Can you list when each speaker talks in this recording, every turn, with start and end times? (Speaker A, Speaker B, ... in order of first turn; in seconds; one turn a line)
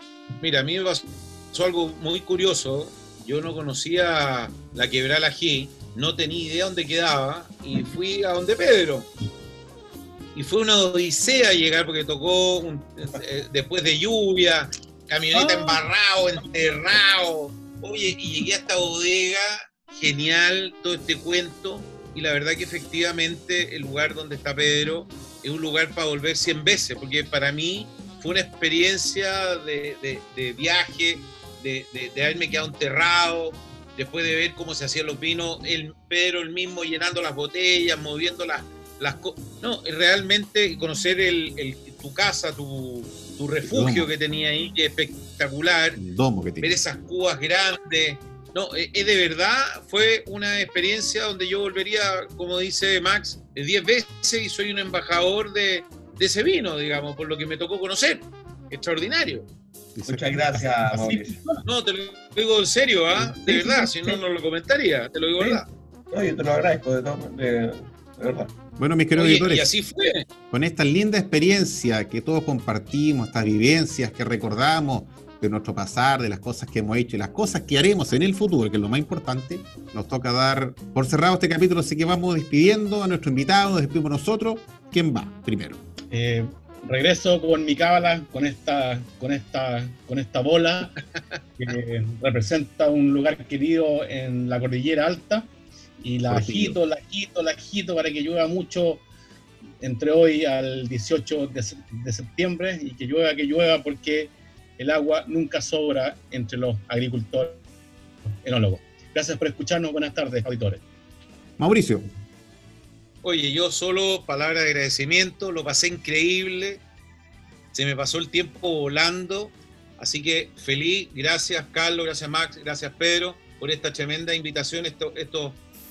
Speaker A: 0.4-9.1
Speaker A: 10.3-46.0
Speaker B: 15.3-15.8
Speaker C: 43.6-44.1
Speaker C: 46.0-46.8
Speaker A: 46.6-59.5
Speaker C: 59.9-60.6
Speaker D: 60.1-61.4
Speaker B: 60.5-61.6
Speaker A: 61.6-65.7
Speaker D: 63.5-64.2
Speaker D: 65.4-68.5
Speaker C: 68.8-69.7
Speaker A: 69.2-70.3
Speaker C: 70.5-85.8
Speaker B: 86.1-91.0
Speaker B: 91.6-95.5
Speaker B: 96.0-99.0
Speaker C: 96.3-96.8
Speaker B: 99.8-107.6
Speaker B: 108.4-110.8
Speaker C: 111.6-112.1
Speaker A: 113.2-116.8
Speaker A: 117.7-125.6